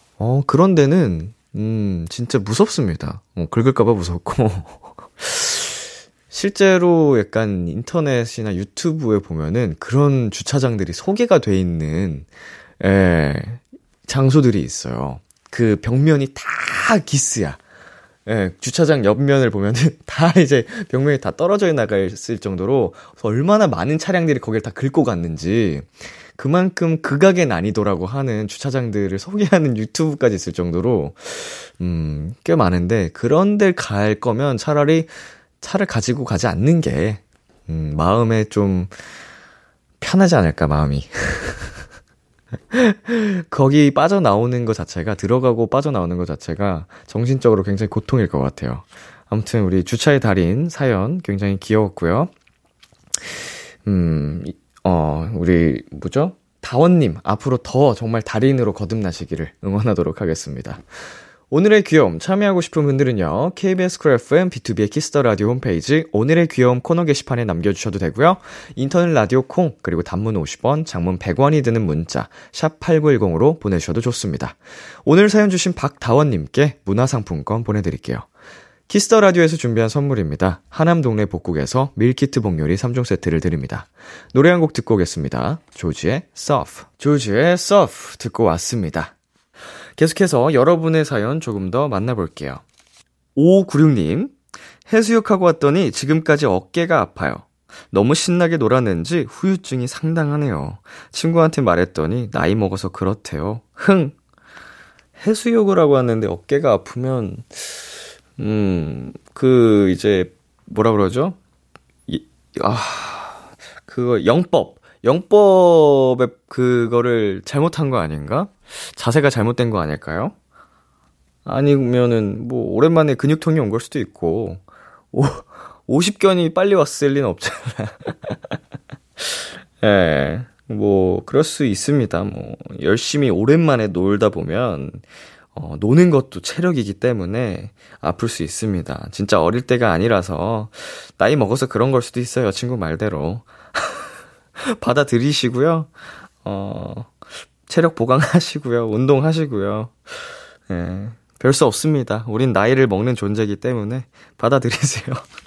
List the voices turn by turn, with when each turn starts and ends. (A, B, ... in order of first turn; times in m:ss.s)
0:00.2-0:12.3 A
0:12.8-0:17.6 A
0:18.2-0:38.9 A
0:40.0-0:41.8 A
0:42.7-0:52.3 A
0:53.2-1:00.8 A
1:01.5-1:18.2 A
1:18.9-1:29.1 A
1:30.0-1:32.6 A
1:33.4-1:34.4 A
1:34.9-1:44.1 A
1:45.2-1:47.8 A
1:48.4-1:51.4 A
1:52.1-2:00.3 A
2:01.4-2:04.6 A
2:05.1-2:08.5 A
2:09.2-2:15.0 A
2:15.5-2:24.0 A
2:24.7-2:25.9 A
2:26.4-2:27.2 A
2:27.7-2:35.2 A